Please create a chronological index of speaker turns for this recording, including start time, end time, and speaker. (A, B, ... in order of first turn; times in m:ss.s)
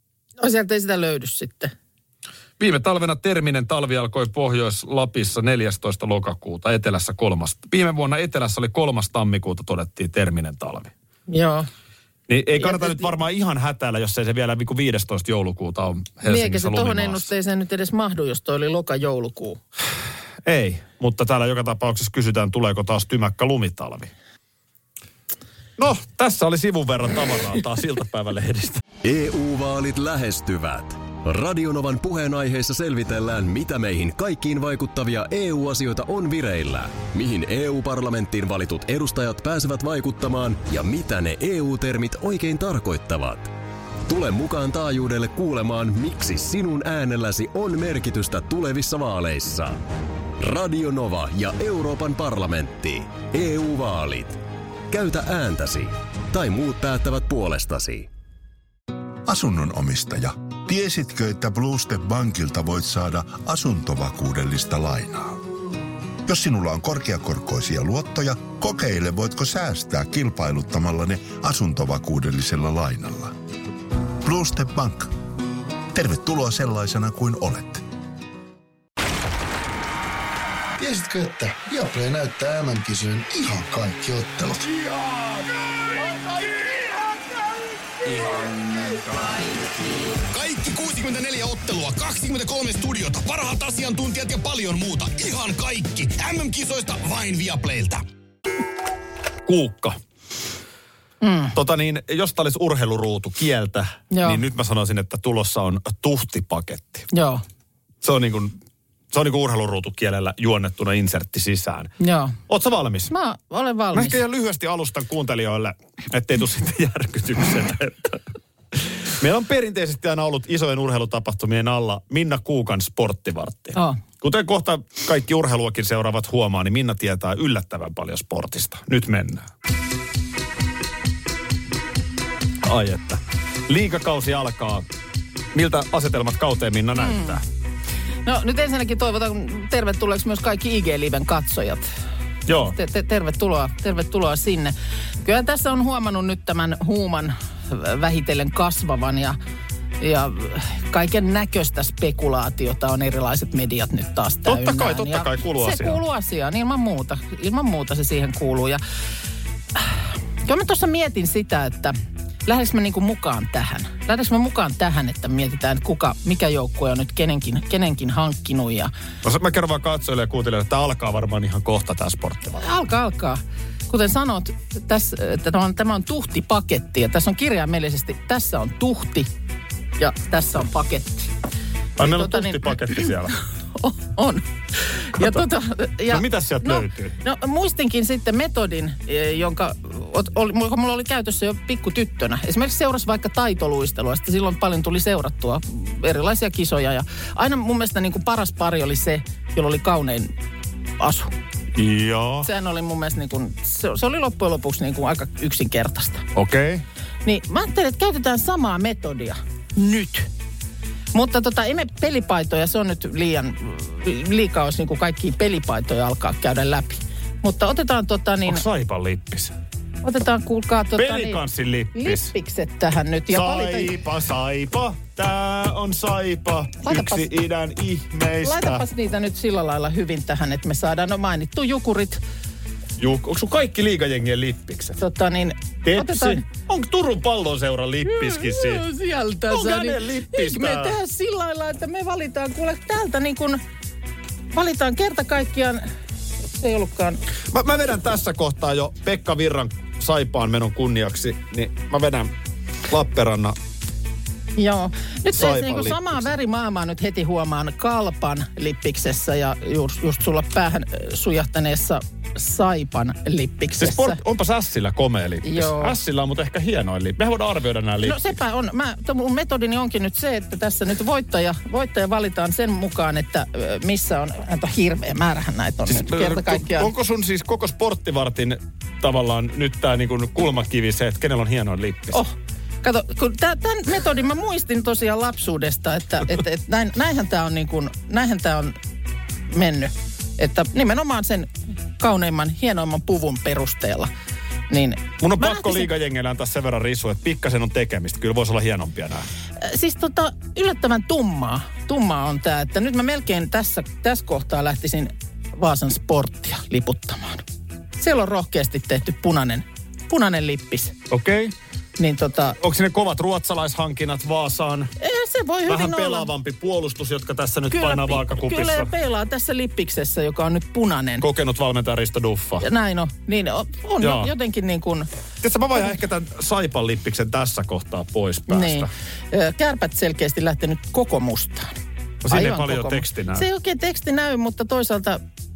0:00.4-0:01.7 A
0:02.6-0:10.9 B
0:11.3-0:11.7 A
0:12.3-0:17.3 B
0:12.6-0:13.1 A
0:16.2-0:19.6 A
0:20.4-0:24.1 B
0:25.8-0:28.8 B
0:29.0-0:43.5 C
0:44.1-0:49.8 C
0:50.4-0:58.1 C
0:59.3-1:05.4 D
1:06.3-1:13.4 D
1:14.2-1:15.1 D
1:15.9-1:17.8 D
1:20.8-1:24.8 E
1:28.0-1:38.0 F
1:39.5-1:40.0 B
1:41.2-1:41.6 A
1:41.5-1:47.1 B
1:44.1-1:44.4 A
1:47.1-1:47.4 A
1:48.0-1:48.6 B
1:49.1-1:51.9 B
1:52.0-1:52.4 A
1:52.5-1:53.1 B
1:53.1-1:54.2 A
1:53.9-1:58.2 B
1:58.7-2:09.5 B
2:12.6-2:14.9 B
2:15.5-2:17.4 B
2:17.0-2:17.4 A
2:18.2-2:21.9 A
2:22.5-2:22.8 B
2:22.7-2:29.4 A
2:30.0-2:38.8 A
2:34.5-2:36.0 B
2:39.8-2:42.0 A
2:42.5-2:48.9 A
2:49.2-2:52.6 B
2:52.6-2:59.3 A
3:00.0-3:01.3 A
3:02.0-3:03.4 B
3:02.0-3:03.1 A
3:03.8-3:20.3 A
3:05.2-3:05.5 B
3:06.1-3:07.2 B
3:21.0-3:21.3 A
3:21.8-3:22.5 B
3:22.4-3:26.2 A
3:26.4-3:26.8 B
3:27.2-3:30.3 A
3:31.1-3:38.6 A
3:38.5-3:39.5 B
3:40.0-3:41.4 A
3:41.0-3:42.3 B
3:41.9-3:43.9 A
3:43.3-3:48.8 B
3:46.8-3:47.3 A
3:48.4-3:52.2 A
3:53.0-3:55.0 B
3:55.0-3:56.4 A
3:55.8-3:58.8 B
3:58.1-4:03.6 A
3:59.5-4:01.0 B
4:04.5-4:05.9 A
4:06.4-4:07.2 A
4:07.5-4:12.3 B
4:12.9-4:13.6 B
4:14.6-4:24.2 A
4:15.3-4:16.2 B
4:23.8-4:28.4 B
4:25.4-4:26.0 A
4:28.0-4:36.9 A
4:35.9-4:42.2 B
4:42.1-4:48.8 A
4:49.5-4:54.1 A
4:54.7-4:55.9 A
4:55.2-4:59.3 B
4:59.6-5:07.4 A
5:08.0-5:11.0 A
5:11.1-5:11.5 B
5:12.0-5:12.6 A
5:12.6-5:14.9 B
5:15.0-5:16.3 A
5:15.7-5:18.9 B
5:17.7-5:21.2 A
5:21.2-5:22.7 B
5:22.6-5:25.1 A
5:24.0-5:24.3 B
5:25.4-5:28.9 B
5:28.5-5:31.8 A
5:32.2-5:33.5 B
5:32.3-5:35.2 A